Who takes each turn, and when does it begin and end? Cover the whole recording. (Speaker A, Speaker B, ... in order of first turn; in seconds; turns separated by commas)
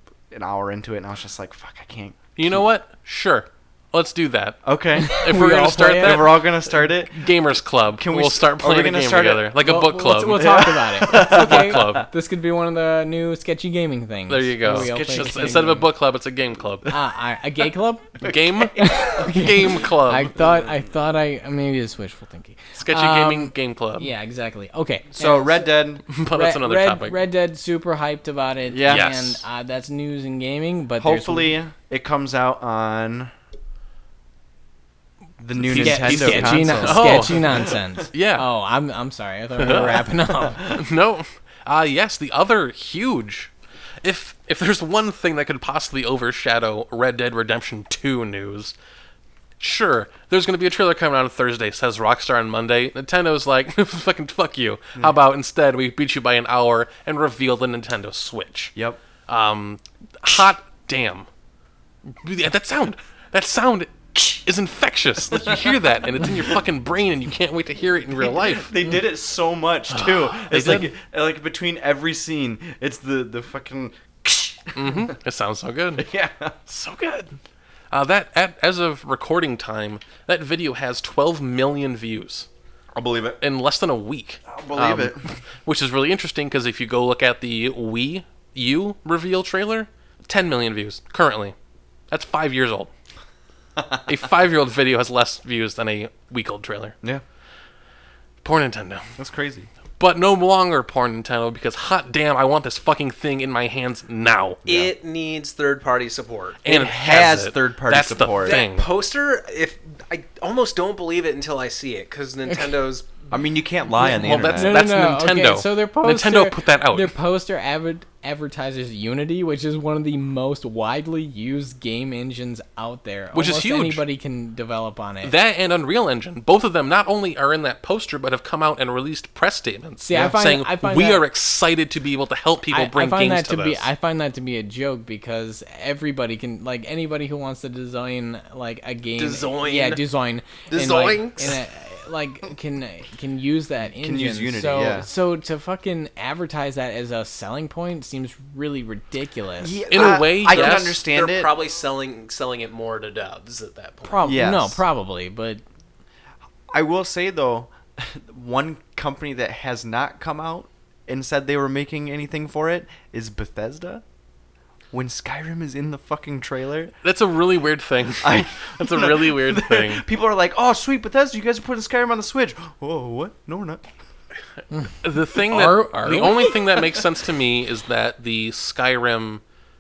Speaker A: 0.3-2.2, Speaker B: 2.4-12.1, Speaker A: 4.6-7.3, Speaker C: 5.0-6.4, Speaker A: 7.9-9.6, Speaker C: 9.6-15.9, Speaker A: 10.3-12.1, Speaker B: 14.3-16.9, Speaker A: 14.7-15.8, Speaker C: 16.9-31.5, Speaker B: 18.2-20.3, Speaker B: 22.8-24.1, Speaker A: 25.1-26.0, Speaker B: 26.1-27.2, Speaker A: 28.7-29.1, Speaker B: 28.9-29.4, Speaker A: 31.0-33.3, Speaker A: 35.4-37.8, Speaker B: 35.6-38.5, Speaker C: 35.7-40.8, Speaker B: 39.6-48.7, Speaker B: 49.6-58.8, Speaker A: 58.7-59.0, Speaker B: 59.3-61.3, Speaker B: 62.1-68.7, Speaker A: 68.1-75.1, Speaker B: 69.9-70.9, Speaker B: 74.7-76.1, Speaker A: 76.0-76.5, Speaker B: 76.7-77.4, Speaker B: 77.9-82.5, Speaker A: 82.9-83.4, Speaker B: 83.4-91.5, Speaker A: 84.5-85.2, Speaker B: 92.1-92.9, Speaker B: 94.0-97.0, Speaker B: 98.4-99.1, Speaker A: 99.2-99.7, Speaker B: 100.0-104.6, Speaker A: 104.6-104.9, Speaker D: 104.7-106.6, Speaker B: 106.6-108.9, Speaker A: 106.6-108.6, Speaker D: 108.4-113.3, Speaker A: 113.3-114.8, Speaker B: 114.0-117.1, Speaker C: 114.1-125.3, Speaker B: 123.3-124.0, Speaker B: 125.2-133.9, Speaker C: 130.0-131.2, Speaker C: 132.7-149.8, Speaker D: 139.2-140.0, Speaker D: 140.7-141.6, Speaker A: 144.0-145.1, Speaker A: 149.6-151.5, Speaker B: 149.9-151.0, Speaker D: 150.0-154.3, Speaker C: 154.1-155.6, Speaker A: 154.2-154.8, Speaker A: 156.7-164.0, Speaker A: 164.9-166.9, Speaker B: 167.0-170.0, Speaker A: 168.2-173.8, Speaker C: 174.7-176.5, Speaker B: 175.0-179.4